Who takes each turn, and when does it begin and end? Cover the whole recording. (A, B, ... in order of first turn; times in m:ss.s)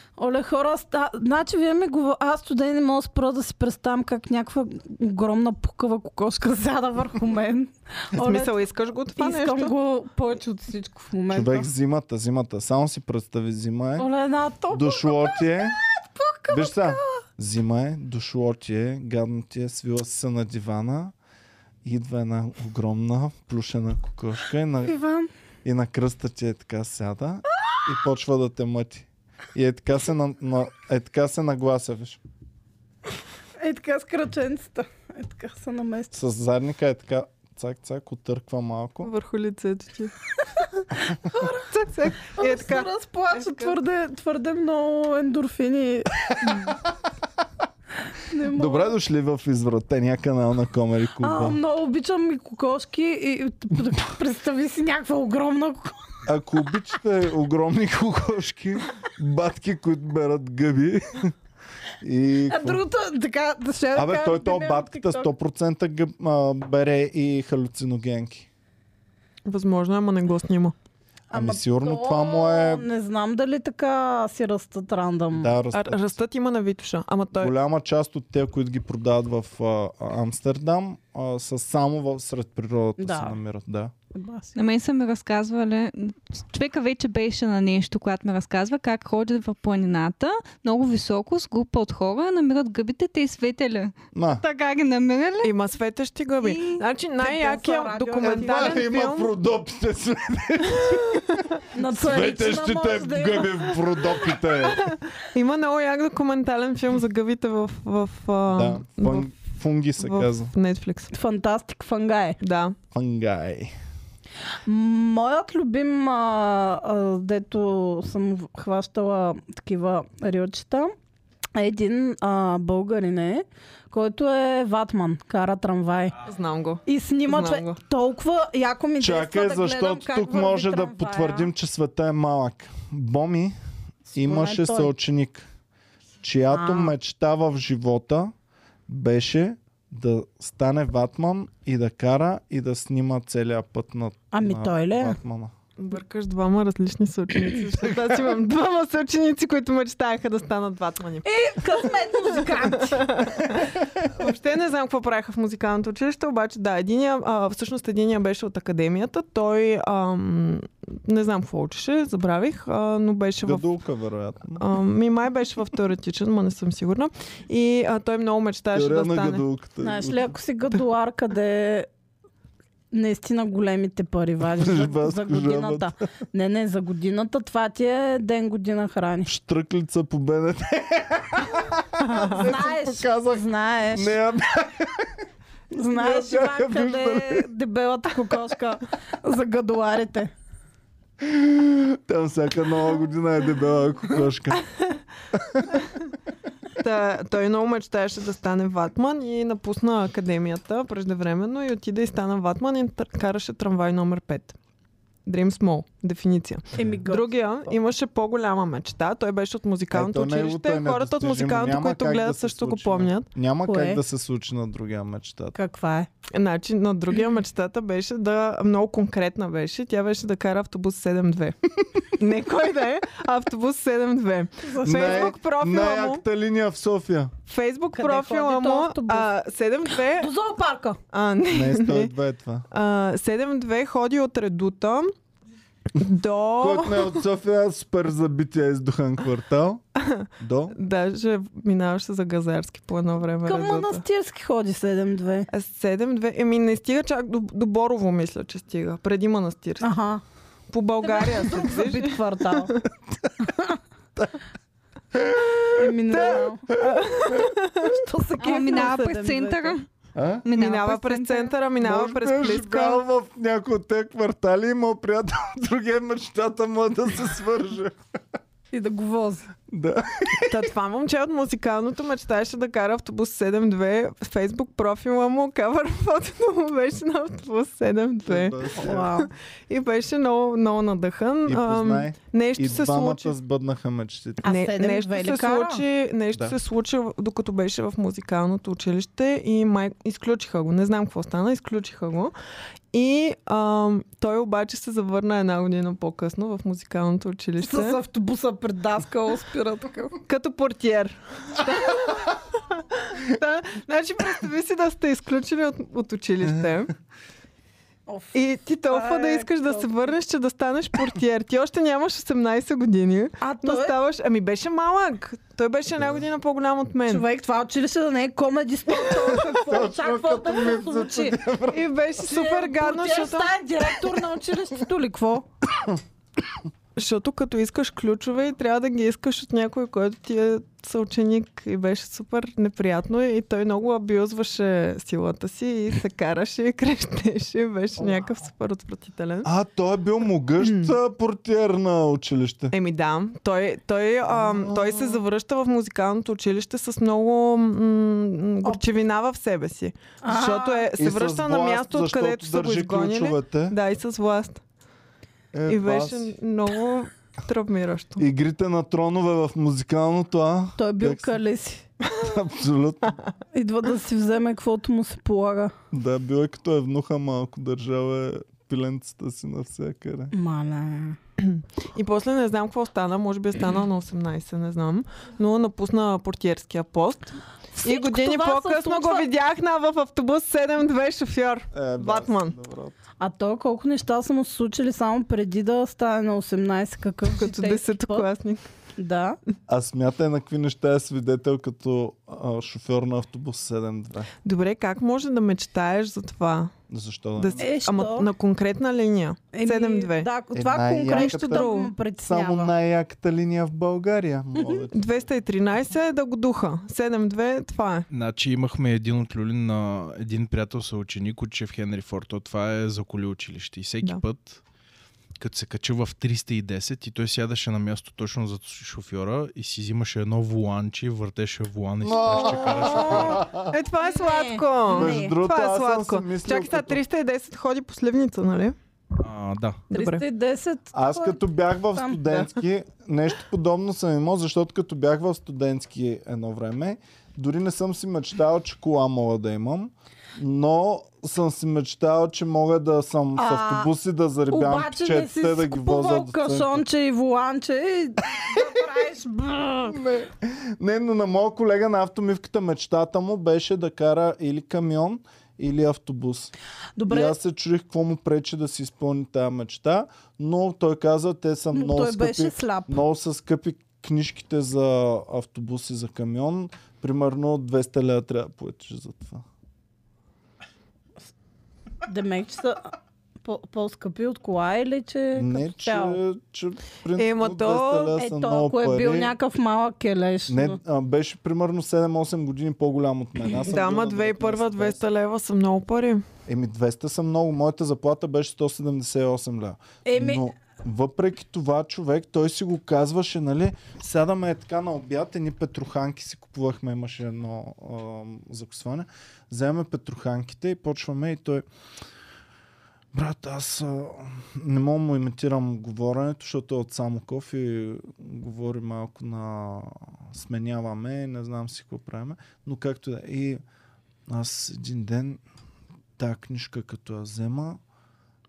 0:00.2-0:08.6 A
0:08.2-0:09.7 B
0:09.2-0:11.7 A
0:11.3-0:14.1 C
0:14.0-0:17.0 A
0:14.7-0:15.8 C
0:16.5-0:21.1 C
0:21.8-0:25.0 C
0:24.8-0:25.3 A
0:25.6-0:32.2 C
0:33.6-0:36.2 A
0:36.1-0:39.1 C
0:39.0-0:40.1 B
0:41.2-0:41.7 A
0:41.5-0:43.8 B
0:42.3-0:46.7 A
0:48.3-0:49.0 A
0:48.5-0:51.6 C
0:51.2-0:56.0 A
0:56.2-1:01.3 C
1:02.0-1:02.8 C
1:02.5-1:05.3 A
1:04.0-1:08.5 C
1:09.5-1:10.8 B
1:11.3-1:15.6 A
1:11.3-1:12.9 C
1:15.4-1:16.2 C
1:15.7-1:17.5 B
1:17.4-1:23.9 C
1:23.0-1:23.4 A
1:24.1-1:24.6 A
1:24.6-1:35.6 D
1:34.1-1:34.4 C
1:35.4-1:39.3 B
1:36.4-1:36.8 D
1:37.2-1:38.9 A
1:38.2-1:44.9 C
1:41.7-1:43.8 A
1:44.6-1:49.3 B
1:48.5-1:50.5 C
1:50.0-1:51.1 B
1:51.1-1:52.4 A
1:52.4-1:52.8 B
1:52.9-1:53.7 C
1:54.7-2:00.9 A
2:01.6-2:06.2 A
2:06.2-2:07.8 B
2:06.9-2:11.5 A
2:09.0-2:13.6 C
2:14.1-2:14.9 A
2:14.1-2:15.5 C
2:16.2-2:18.3 C
2:16.5-2:16.9 A
2:18.9-2:25.5 C
2:24.3-2:25.2 A
2:25.8-2:31.3 B
2:31.2-2:33.3 A
2:32.4-2:43.7 B
2:43.4-2:44.6 C
2:44.6-2:49.4 B
2:48.7-2:50.3 C
2:49.8-2:51.9 A
2:52.9-2:59.3 A
2:54.5-2:55.9 C
2:59.3-3:05.1 C
3:02.0-3:02.4 B
3:02.2-3:04.2 A
3:05.7-3:10.3 A
3:05.9-3:07.5 C
3:11.2-3:14.7 C
3:15.3-3:15.8 C
3:16.8-3:24.6 B
3:25.3-3:33.3 B
3:26.8-3:27.7 A
3:29.9-3:35.6 C
3:33.6-3:34.0 A
3:35.6-3:36.1 A
3:36.3-3:46.2 B
3:44.6-3:45.3 A
3:44.8-3:47.3 C
3:47.5-3:50.3 B
3:48.0-3:49.3 A
3:50.2-3:51.0 A
3:51.1-3:52.1 B
3:51.5-3:52.7 C
3:52.7-3:55.1 B
3:56.0-3:57.2 B
3:56.6-3:59.8 C
4:00.0-4:04.0 B
4:00.4-4:00.8 C
4:03.5-4:05.5 A
4:05.5-4:09.9 B
4:09.8-4:10.2 A
4:10.7-4:12.8 B
4:11.0-4:12.8 A
4:13.4-4:13.8 A
4:15.1-4:15.8 C
4:15.8-4:16.7 A
4:16.1-4:17.9 B
4:16.9-4:17.3 C
4:17.8-4:19.8 A
4:18.4-4:19.9 D
4:20.2-4:20.5 C
4:20.4-4:21.5 D
4:20.6-4:23.0 B
4:21.8-4:28.0 C
4:28.7-4:29.5 A
4:29.7-4:30.6 C
4:30.5-4:43.3 B
4:38.3-4:39.1 C
4:38.8-4:39.3 A
4:41.5-4:44.5 C
4:44.4-4:45.8 A
4:44.4-4:52.3 B
4:52.9-4:58.0 B
4:57.6-5:00.2 A
5:00.3-5:06.9 B
5:08.1-5:08.4 A
5:08.3-5:17.2 B
5:08.9-5:09.9 A
5:13.4-5:14.0 A
5:17.1-5:21.4 A
5:19.5-5:21.9 C
5:21.7-5:23.6 B
5:22.2-5:25.5 A
5:27.0-5:39.5 B
5:39.4-5:42.7 C
5:40.6-5:40.9 B
5:42.7-5:54.6 B
5:44.3-5:45.2 C
5:50.2-5:50.9 A
5:51.0-5:53.8 C
5:55.5-5:56.3 C
5:55.7-5:58.2 B
5:58.2-6:01.3 C
6:00.8-6:01.9 A
6:02.1-6:03.2 C
6:03.5-6:05.7 A
6:05.9-6:10.3 C
6:10.3-6:11.2 A
6:11.4-6:22.6 B
6:17.8-6:19.3 A
6:21.7-6:23.0 C
6:23.2-6:28.3 A
6:27.3-6:28.7 B
6:29.0-6:29.4 A
6:29.7-6:34.3 C
6:34.4-6:36.7 B
6:36.9-6:37.7 C
6:37.4-6:40.3 B
6:37.6-6:38.3 A
6:39.5-6:42.7 A
6:40.5-6:41.7 C
6:41.1-6:41.9 B
6:42.2-6:45.2 C
6:44.6-6:44.8 A
6:44.9-6:48.1 B
6:48.1-6:54.6 E
6:55.4-7:03.5 E
7:02.0-7:03.7 C
7:02.9-7:03.4 A
7:03.7-7:08.8 B
7:04.0-7:05.4 A
7:04.9-7:07.0 C
7:09.2-7:09.9 E
7:09.9-7:10.2 B
7:09.9-7:12.2 A
7:10.9-7:26.8 C
7:23.4-7:23.9 A
7:24.5-7:30.0 A
7:29.9-7:36.5 C
7:37.0-7:37.4 A
7:37.1-7:49.4 C
7:41.7-7:43.0 A
7:52.0-7:52.9 A
7:53.4-7:56.2 A
7:55.4-7:59.3 C
7:57.2-7:58.2 B
7:58.2-8:00.8 A
8:00.5-8:05.0 C
8:03.5-8:06.2 B
8:06.5-8:21.6 C
8:10.0-8:10.4 A
8:23.1-8:33.6 C
8:34.3-8:35.4 C
8:36.2-8:37.8 C